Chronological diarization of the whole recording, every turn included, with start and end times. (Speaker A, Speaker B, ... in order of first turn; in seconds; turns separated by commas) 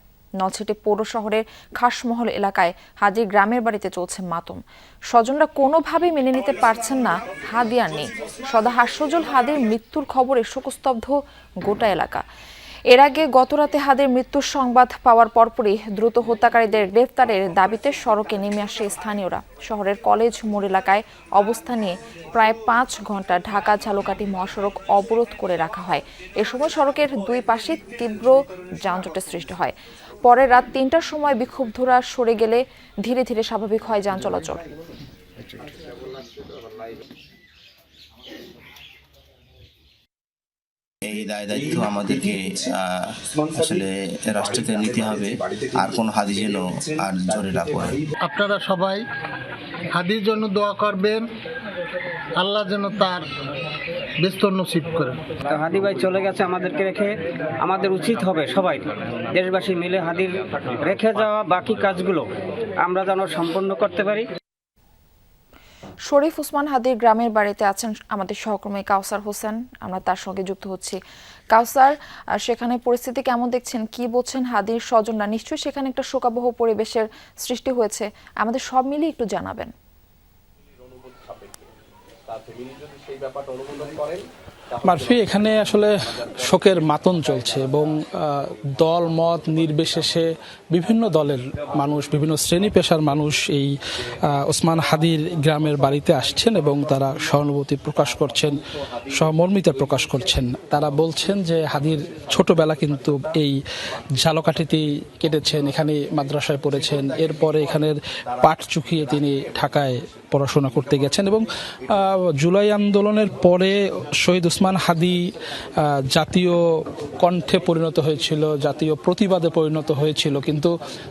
Speaker A: 0.4-12.2, Speaker A: 12.9-34.6, Speaker B: 41.0-48.0, Speaker C: 48.3-49.0, Speaker C: 50.0-51.2, Speaker C: 52.4-53.2, Speaker C: 54.2-55.2, Speaker D: 55.5-57.1, Speaker D: 57.6-62.3, Speaker D: 62.8-64.3, Speaker A: 66.1-71.0, Speaker A: 71.5-79.7, Speaker E: 84.8-93.7, Speaker E: 94.3-98.6, Speaker E: 99.1-103.6, Speaker E: 104.2-115.3, Speaker E: 116.1-120.7